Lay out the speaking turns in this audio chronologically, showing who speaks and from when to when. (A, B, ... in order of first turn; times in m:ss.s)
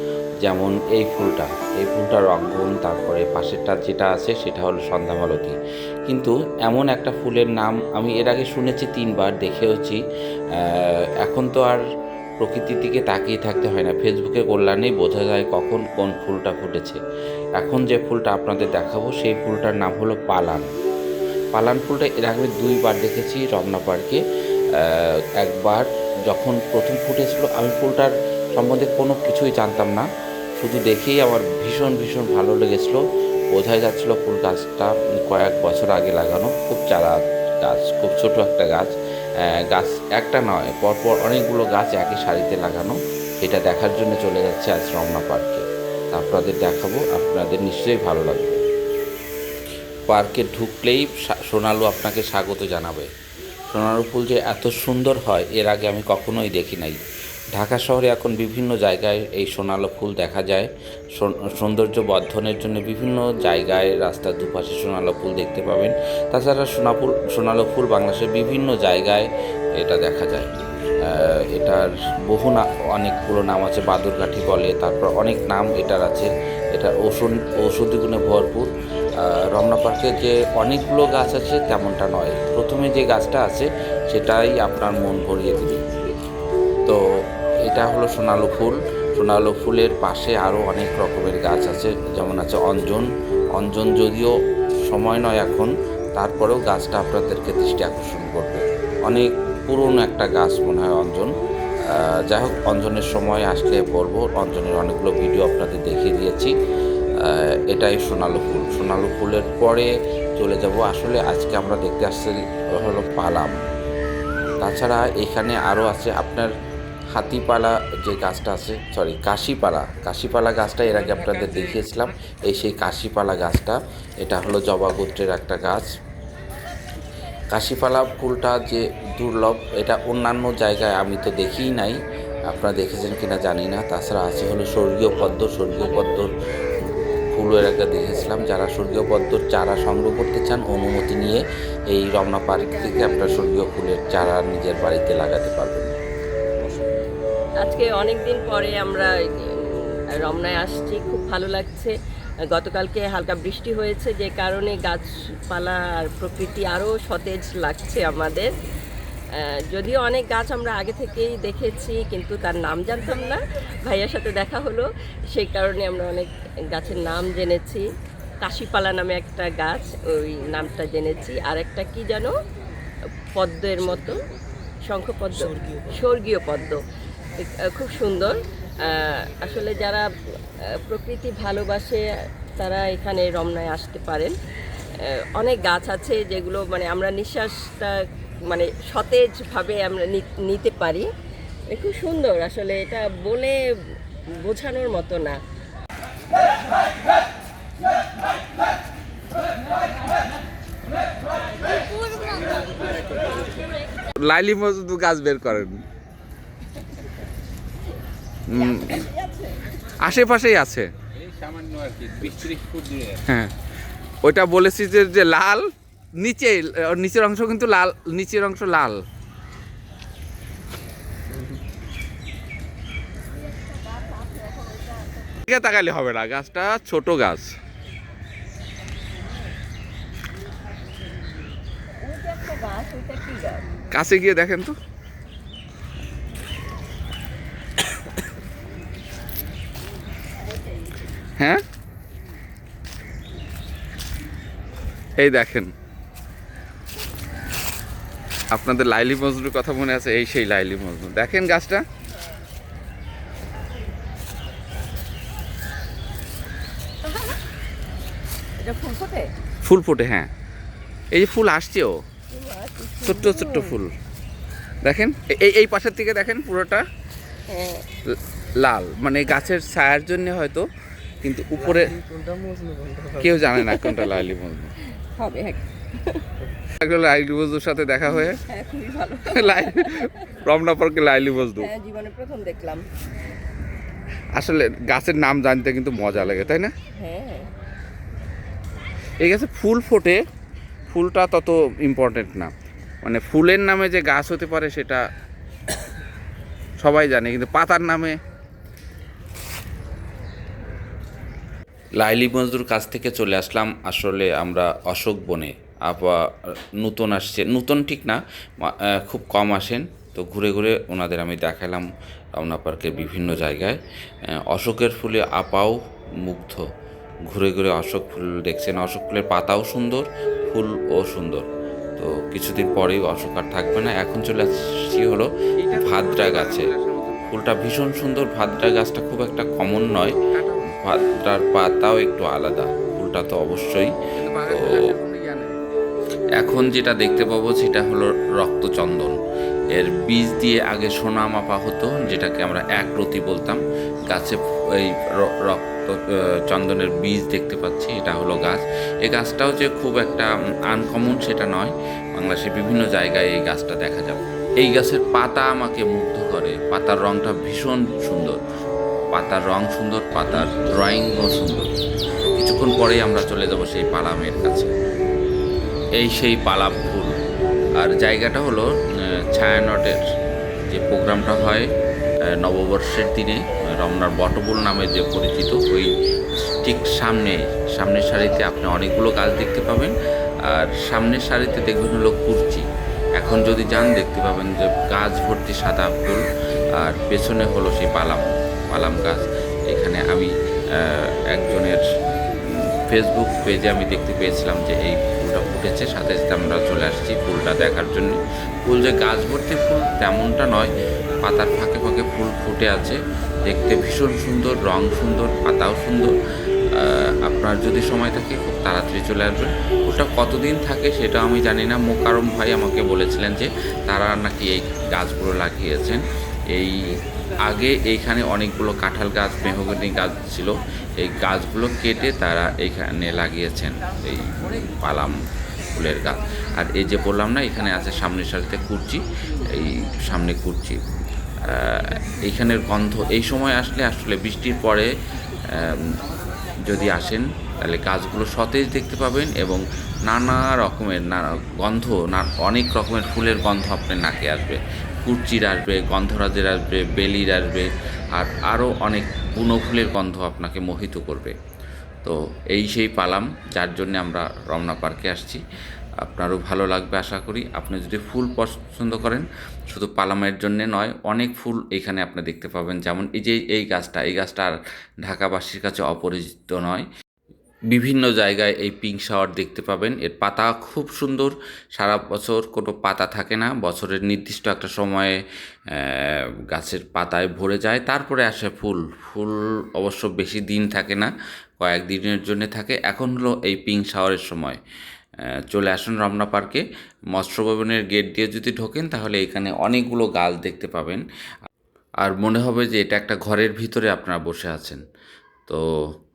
0:00.4-0:05.6 A
0:06.1-0:10.0 A
0:10.6-0:11.8 A
0:12.4-0:17.0 A
0:17.6-0:20.7 A
0:21.5-0:24.2 A
0:24.7-0:30.0 A
0:30.6-0:33.0 A
0:33.5-0:38.9 A
0:39.5-0:48.6 A
0:50.1-0:53.1 A
0:53.7-0:57.0 A
0:57.6-1:10.5 A
1:11.0-1:18.7 A
1:19.2-1:25.8 A
1:27.6-1:34.3 A
1:34.9-1:41.3 A
1:41.8-1:46.5 A
1:47.2-1:53.5 A
1:54.6-1:56.5 A
1:57.1-2:05.9 A
2:07.5-2:16.3 A
2:17.3-2:25.9 A
2:27.6-2:32.0 B
2:32.5-2:38.5 B
2:39.3-2:47.9 B
2:48.4-2:52.4 B
2:53.4-2:54.3 B
2:54.8-2:56.8 B
2:57.4-3:04.4 B
3:04.9-3:11.1 B
3:11.7-3:15.4 B
3:22.2-3:25.8 C
3:28.5-3:28.9 C
3:28.6-3:29.5 B
3:30.0-3:33.5 C
3:34.2-3:35.6 C
3:36.2-3:38.8 C
3:38.2-3:39.0 A
3:43.8-3:45.4 B
3:45.5-3:47.6 A
3:52.0-3:53.7 B
3:53.9-3:54.7 C
4:05.2-4:05.7 A
4:08.6-4:09.8 A
4:08.6-4:11.8 C
4:10.4-4:11.3 A
4:18.6-4:19.3 B
4:19.6-4:20.3 A
4:21.2-4:21.9 C
4:21.2-4:21.9 A
4:22.3-4:23.8 B
4:23.1-4:23.9 A
4:23.1-4:23.4 C
4:24.8-4:26.8 C
4:27.5-4:27.9 B
4:28.6-4:30.6 C
4:29.8-4:30.6 A
4:31.2-4:31.9 A
4:31.2-4:34.3 C
4:32.4-4:33.0 B
4:33.3-4:34.7 A
4:33.5-4:34.3 B
4:34.8-4:36.2 B
4:36.7-4:38.4 C
4:38.0-4:40.4 B
4:39.3-4:39.9 C
4:40.4-4:41.7 C
4:41.3-4:42.9 B
4:44.4-4:46.7 C
4:46.2-4:47.5 B
4:49.2-4:50.2 C
4:50.9-4:52.4 C
4:50.9-4:51.5 A
4:53.0-4:55.0 C
4:56.8-4:58.1 C
5:02.0-5:06.2 A
5:06.8-5:13.8 A
5:14.3-5:16.6 A
5:17.3-5:21.4 A
5:22.0-5:35.0 A
5:25.6-5:27.2 C
5:30.4-5:30.7 C
5:34.2-5:35.6 C
5:36.4-5:39.2 A
5:39.7-5:58.4 A
5:59.1-6:01.7 A
6:02.3-6:04.7 A
6:06.0-6:07.1 A
6:07.8-6:10.0 A
6:10.7-6:11.7 A
6:12.3-6:15.9 A
6:16.5-6:19.9 A
6:20.5-6:22.6 A
6:23.2-6:26.2 A
6:26.8-6:31.8 A
6:32.4-6:40.7 A
6:41.2-6:46.1 A
6:46.7-6:56.8 A
6:57.4-7:05.2 A
7:05.7-7:10.8 A
7:11.4-7:14.9 A
7:15.5-7:15.8 A
7:16.6-7:31.3 A
7:32.0-7:35.4 A
7:36.0-7:44.5 A
7:45.0-7:46.8 A
7:47.7-7:55.2 A
7:55.7-8:04.6 A
8:05.5-8:06.6 A
8:07.1-8:11.0 A
8:12.0-8:14.8 A